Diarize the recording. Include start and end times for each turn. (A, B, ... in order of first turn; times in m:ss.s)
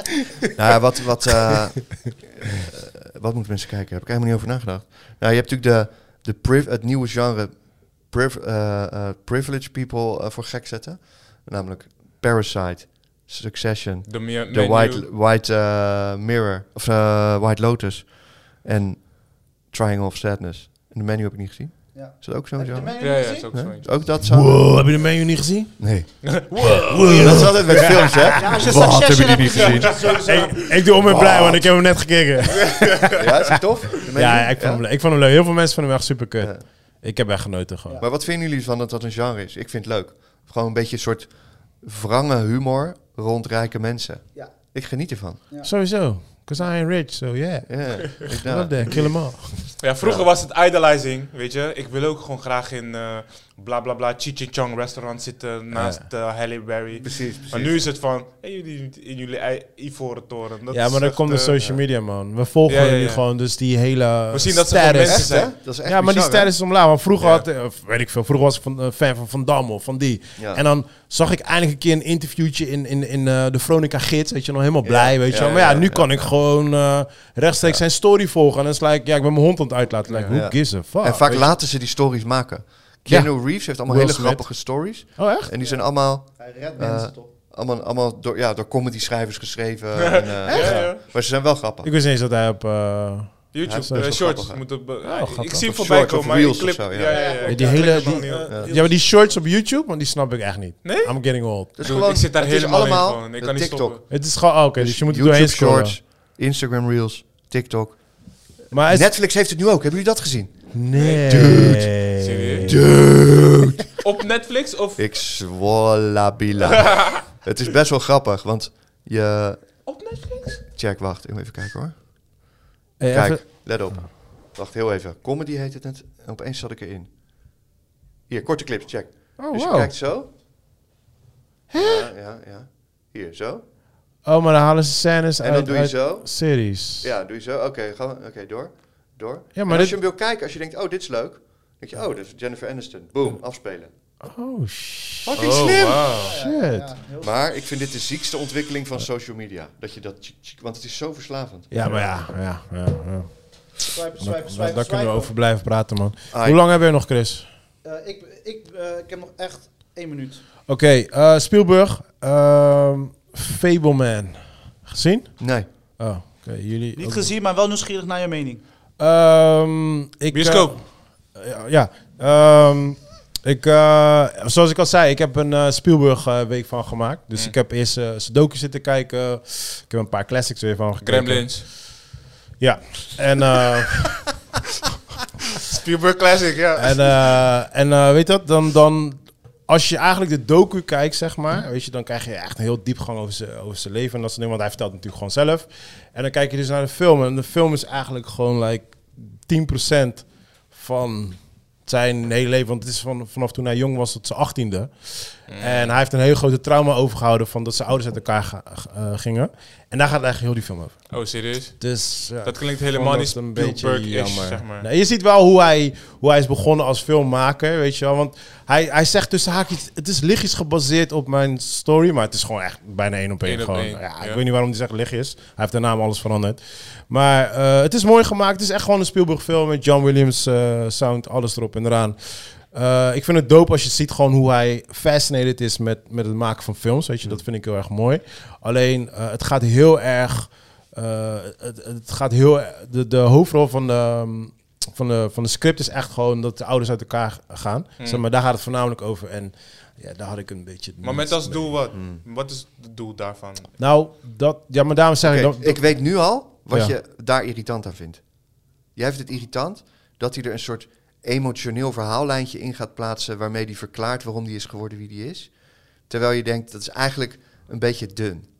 0:00.5-0:24.8 A
0:14.1-0:15.1 B
0:21.9-0:23.5 C
0:23.0-0:23.9 B
0:24.2-0:28.9 D
0:25.8-0:26.1 A
0:26.2-0:27.5 B
0:27.0-0:30.2 A
0:28.3-0:30.8 C
0:29.4-0:30.4 B
0:30.2-0:33.3 D
0:31.0-0:31.7 A
0:32.6-0:33.5 B
0:33.2-0:34.8 A
0:33.9-0:38.0 D
0:38.0-0:45.4 A
0:45.6-0:49.8 D
0:47.6-0:50.3 A
0:49.8-1:01.6 B
0:55.7-0:56.0 D
0:57.0-0:57.8 A
1:00.7-1:21.6 D
1:02.7-1:03.2 B
1:04.3-1:05.5 B
1:05.0-1:06.5 A
1:07.2-1:07.4 B
1:10.4-1:10.6 A
1:14.8-1:16.2 A
1:15.3-1:15.8 B
1:20.1-1:20.4 B
1:20.3-1:31.9 A
1:23.1-1:25.5 D
1:25.6-1:27.3 C
1:30.0-1:31.0 B
1:30.5-1:31.0 D
1:31.8-1:34.1 D
1:33.5-1:38.5 B
1:33.6-1:34.6 A
1:35.0-1:35.7 D
1:35.6-1:37.4 A
1:37.0-1:39.3 C
1:37.4-1:41.7 D
1:40.8-1:44.0 B
1:41.8-1:44.0 A
1:44.1-1:46.0 D
1:44.7-1:52.0 A
1:48.7-1:49.1 D
1:50.7-1:52.8 D
1:51.0-1:51.5 B
1:52.1-1:52.7 B
1:52.6-1:54.0 A
1:54.0-1:55.0 B
1:55.0-2:00.0 A
1:56.8-1:57.2 B
1:59.8-2:00.6 B
2:00.7-2:07.1 A
2:03.0-2:03.6 D
2:08.3-2:10.3 A
2:09.4-2:09.9 D
2:11.7-2:12.1 D
2:11.7-2:13.6 A
2:14.2-2:17.1 D
2:15.4-2:16.4 A
2:17.0-2:23.9 A
2:19.5-2:20.0 D
2:24.2-2:25.4 D
2:25.2-2:26.1 A
2:25.4-2:26.3 B
2:26.1-2:27.3 C
2:26.4-2:26.9 D
2:27.2-2:32.2 A
2:31.7-2:37.5 D
2:33.9-2:35.3 C
2:36.3-2:36.6 A
2:37.8-2:40.4 C
2:40.7-2:47.3 D
2:45.4-2:45.7 A
2:46.9-2:48.6 C
2:49.0-3:01.8 D
2:50.3-2:50.8 B
3:01.0-3:01.6 B
3:02.6-3:04.4 D
3:05.7-3:07.4 B
3:06.8-3:31.2 D
3:25.5-3:25.9 B
3:31.1-3:34.9 B
3:31.8-4:11.8 D
3:43.4-3:44.4 B
4:11.0-4:13.7 B
4:11.9-4:12.2 A
4:13.8-4:15.9 D
4:15.2-4:28.4 A